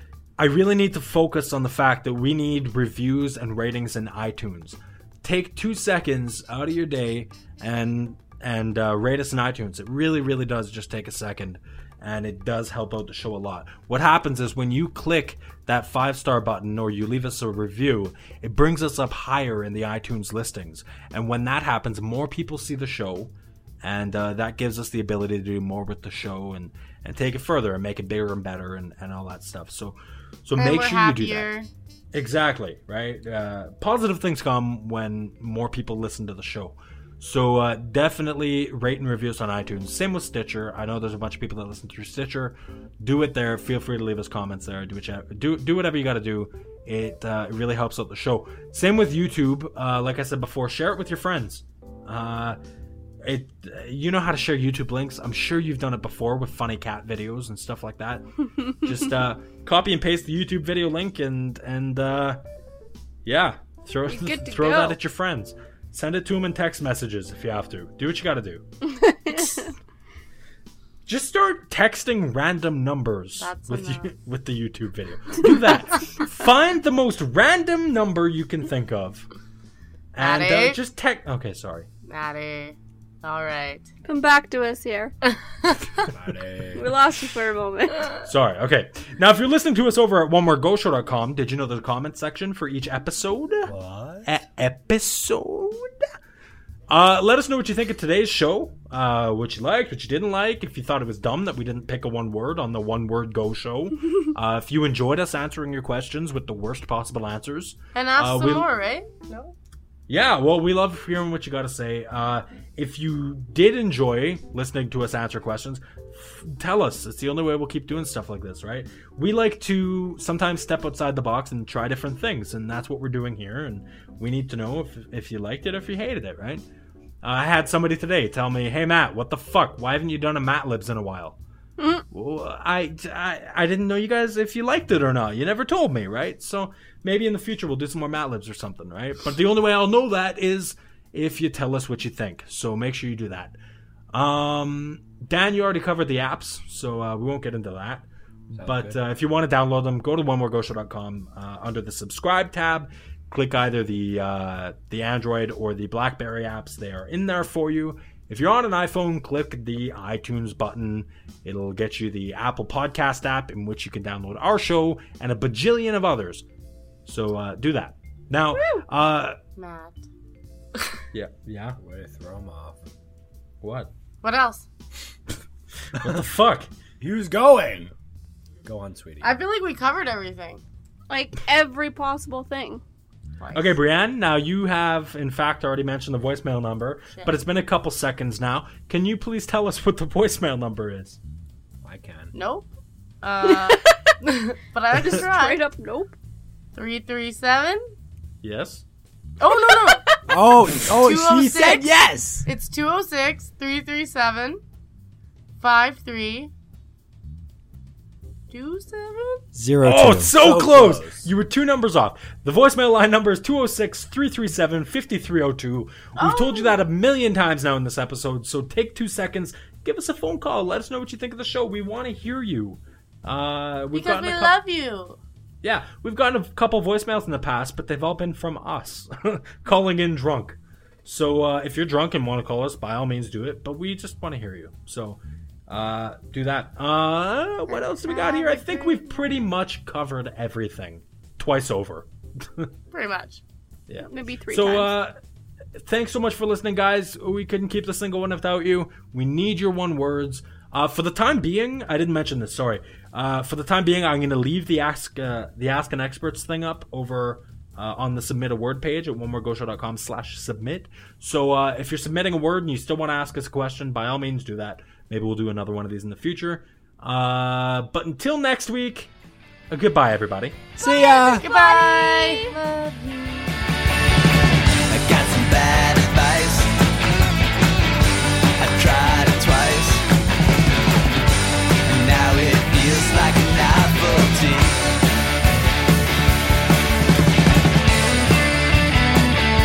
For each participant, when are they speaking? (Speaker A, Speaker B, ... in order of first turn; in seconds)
Speaker A: 0.4-31.5, 32.1-52.6, 53.2-62.4, 63.2-68.6, 71.1-79.3, 80.1-81.9, 88.2-93.7, 94.3-95.9, 96.9-108.7, 110.1-126.6, 127.2-131.4, 132.1-143.6, 144.1-166.4, 167.1-169.4, 171.1-171.8, 173.6-173.9, 175.9-176.7, 183.5-191.2, 198.4-198.8, 209.8-224.6, 225.6-242.7, 243.9-245.2, 245.8-269.1, 269.7-270.6
Speaker B: 30.6-31.7, 73.4-74.1, 80.2-80.8, 82.1-83.9, 85.6-86.1, 108.0-109.5, 169.6-170.0, 174.2-174.7, 179.2-180.6, 183.4-183.8, 192.3-192.7, 193.2-195.6, 196.8-197.8, 199.4-200.0, 201.0-201.9, 202.5-204.6, 205.6-206.5, 208.5-209.4, 216.2-216.8, 223.9-225.2, 237.7-239.0, 242.9-243.4, 271.3-273.5
Speaker C: 64.1-65.0, 68.8-69.7, 84.0-85.1, 86.8-88.1, 131.8-132.0, 181.1-182.8, 195.0-196.2, 199.8-200.2, 244.1-244.9, 270.8-272.5
Speaker D: 86.1-86.9, 93.7-94.3, 148.5-148.9, 171.8-172.8, 177.0-177.9, 178.6-179.4, 191.8-192.3, 200.3-202.5, 209.5-211.3, 270.8-271.4
Speaker E: 274.9-276.7, 278.6-280.0, 281.9-284.8